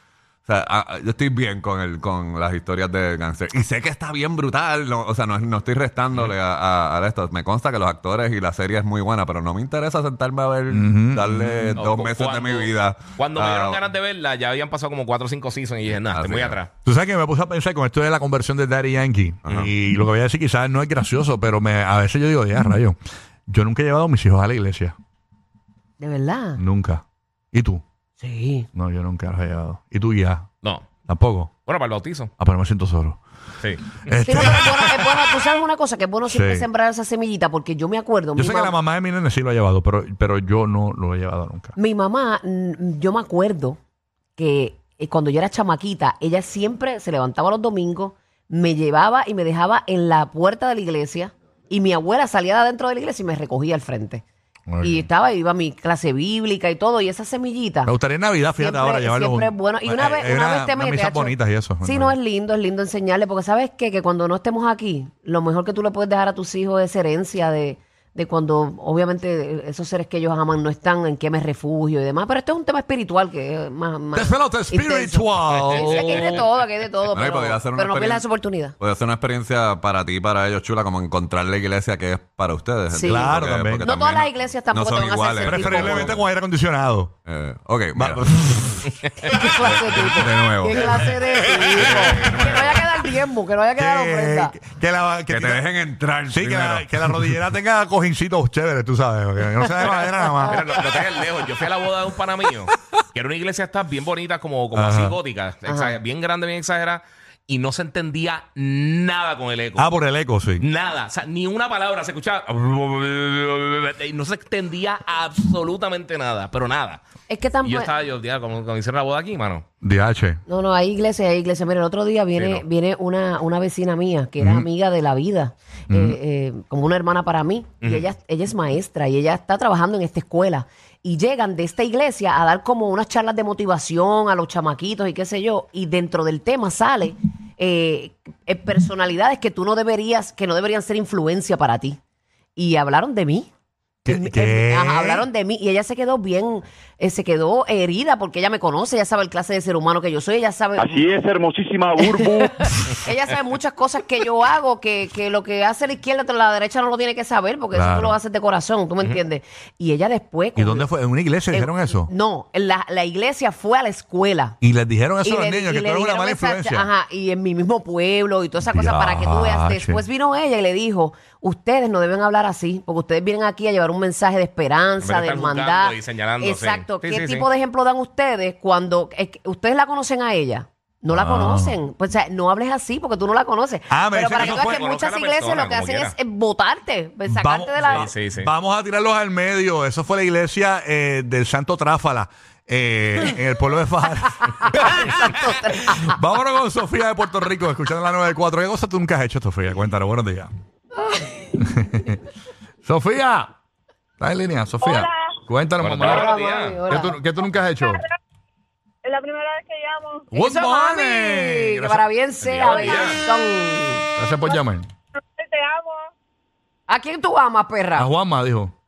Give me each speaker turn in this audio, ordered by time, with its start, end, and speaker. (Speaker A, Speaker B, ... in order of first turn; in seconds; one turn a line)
Speaker A: 0.5-13.8
Speaker B: 10.7-11.8
Speaker C: 11.7-16.7
Speaker A: 16.1-16.6
Speaker B: 16.8-23.0
Speaker A: 19.4-19.7
Speaker B: 23.5-24.9
Speaker D: 26.0-26.6
Speaker B: 26.6-27.8
Speaker D: 28.2-28.7
Speaker B: 28.8-30.5
Speaker C: 30.6-30.9
Speaker B: 31.1-31.5
Speaker C: 31.6-32.3
Speaker B: 32.4-33.2
Speaker C: 33.6-34.0
Speaker B: 34.0-34.9
Speaker D: 34.2-38.8
Speaker B: 36.3-36.7
Speaker B: 38.4-41.7
Speaker D: 41.8-43.8
Speaker D: 44.4-54.2
Speaker B: 54.7-55.0
Speaker D: 54.8-57.9
Speaker B: 57.9-62.1
Speaker D: 58.6-78.8
Speaker B: 74.1-76.5
Speaker C: 76.0-76.4
Speaker A: 77.1-86.2
Speaker D: 82.9-86.1
Speaker B: 83.0-83.8
Speaker B: 85.4-87.1
Speaker A: 87.2-88.2
Speaker B: 88.0-88.9
Speaker D: 89.2-94.5
Speaker A: 89.6-92.9
Speaker B: 93.8-95.7
Speaker A: 95.3-97.3
Speaker B: 96.3-100.8
Speaker C: 99.9-109.9
Speaker B: 104.7-105.2
Speaker D: 105.7-105.9
Speaker B: 109.8-110.6
Speaker C: 110.6-117.0
Speaker D: 117.3-117.9
Speaker C: 117.6-119.6
Speaker B: 119.8-120.4
Speaker D: 120.5-142.0
Speaker C: 122.3-122.6
Speaker B: 124.4-124.7
Speaker B: 125.9-126.2
Speaker C: 127.8-128.1
Speaker D: 142.6-143.5
Speaker B: 144.1-145.3
Speaker D: 144.1-151.0
Speaker E: 150.8-152.7
Speaker D: 152.6-160.9
Speaker B: 157.7-158.2
Speaker B: 160.6-162.1
Speaker D: 161.5-164.6
Speaker B: 164.6-166.9
Speaker D: 165.2-188.1
Speaker B: 168.7-170.0
Speaker C: 175.0-177.5
Speaker B: 181.1-181.8
Speaker B: 183.9-184.8
Speaker C: 184.3-186.1
Speaker B: 187.3-195.2
Speaker C: 187.9-188.5
Speaker D: 194.6-196.2
Speaker B: 195.8-200.5
Speaker D: 201.1-201.5
Speaker B: 201.6-202.2
Speaker B: 202.8-203.5
Speaker B: 204.2-206.3
Speaker F: 204.8-205.4
Speaker C: 205.8-206.8
Speaker D: 206.1-207.2
Speaker B: 206.9-208.0
Speaker F: 207.8-208.2
Speaker F: 209.0-210.3
Speaker B: 210.3-212.0
Speaker D: 210.3-214.1
Speaker C: 212.4-213.2
Speaker B: 214.2-214.9
Speaker F: 215.2-216.1
Speaker D: 216.9-218.1
Speaker B: 217.9-218.7